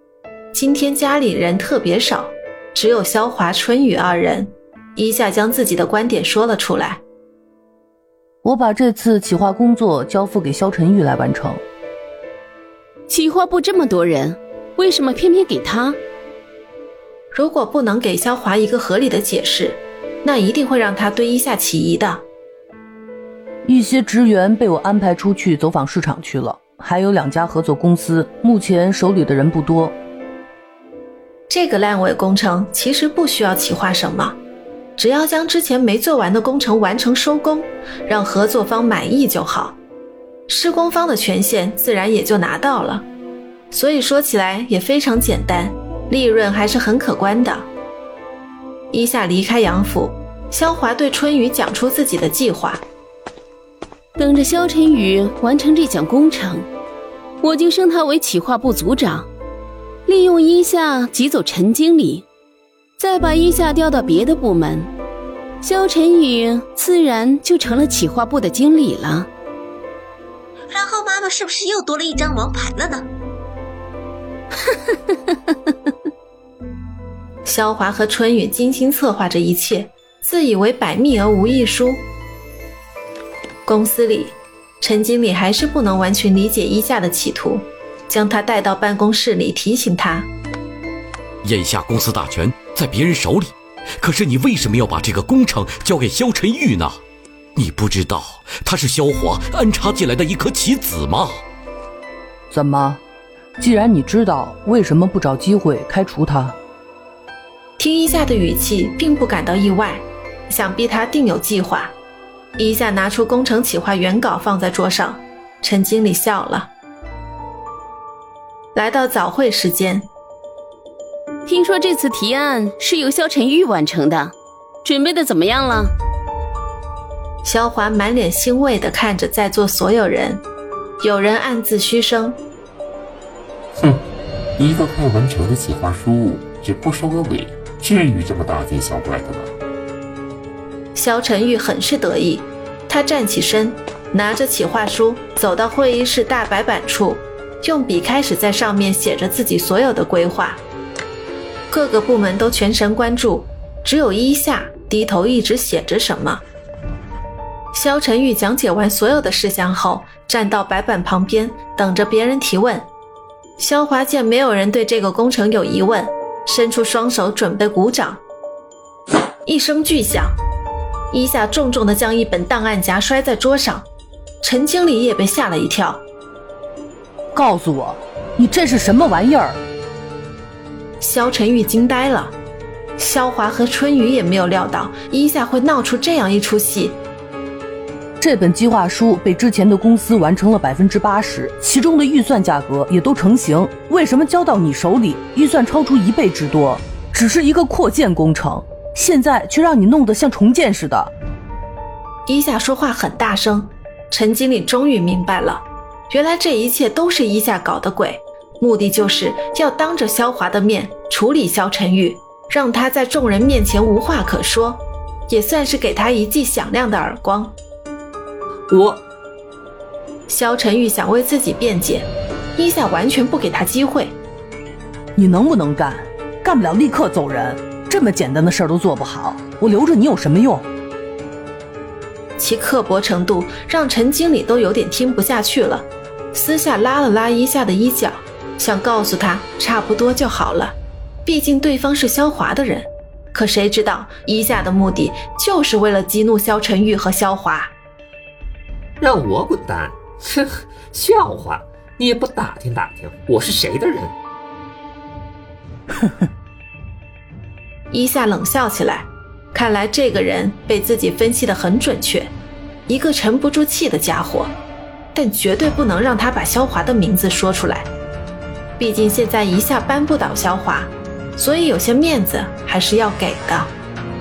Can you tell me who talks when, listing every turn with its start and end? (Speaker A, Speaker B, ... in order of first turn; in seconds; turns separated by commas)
Speaker A: 0.5-7.0, Speaker B: 8.4-11.6, Speaker C: 13.1-16.0, Speaker A: 17.3-22.2, Speaker B: 23.6-30.0, Speaker A: 31.5-34.4, Speaker A: 35.0-39.8, Speaker A: 40.5-43.1, Speaker A: 43.7-47.7, Speaker A: 48.9-52.8, Speaker C: 54.1-56.7, Speaker C: 57.4-59.3, Speaker C: 60.1-62.2, Speaker C: 63.0-64.9, Speaker C: 65.6-69.3, Speaker D: 70.7-73.0, Speaker A: 77.4-82.0, Speaker A: 83.7-90.3, Speaker E: 91.4-97.0, Speaker E: 97.5-101.4, Speaker B: 102.5-103.0, Speaker B: 103.6-106.5, Speaker A: 107.8-111.9, Speaker A: 112.6-116.7, Speaker A: 118.7-120.1, Speaker C: 121.5-125.9, Speaker A: 127.4-130.4, Speaker A: 131.0-132.4, Speaker F: 134.6-139.5, Speaker A: 140.9-150.6, Speaker A: 151.7-156.4, Speaker A: 157.7-162.9, Speaker A: 163.6-168.2, Speaker A: 169.4-170.4, Speaker A: 171.1-173.9, Speaker A: 174.4-176.0, Speaker B: 177.3-179.6, Speaker A: 181.0-182.3, Speaker A: 183.0-187.0, Speaker B: 188.2-201.1, Speaker A: 202.3-217.5, Speaker G: 218.7-219.0, Speaker A: 220.3-224.2, Speaker B: 225.2-230.7, Speaker A: 232.4-247.7, Speaker G: 249.0-254.2, Speaker A: 257.9-262.3, Speaker A: 262.9-264.5, Speaker A: 265.1-267.9, Speaker A: 268.8-273.7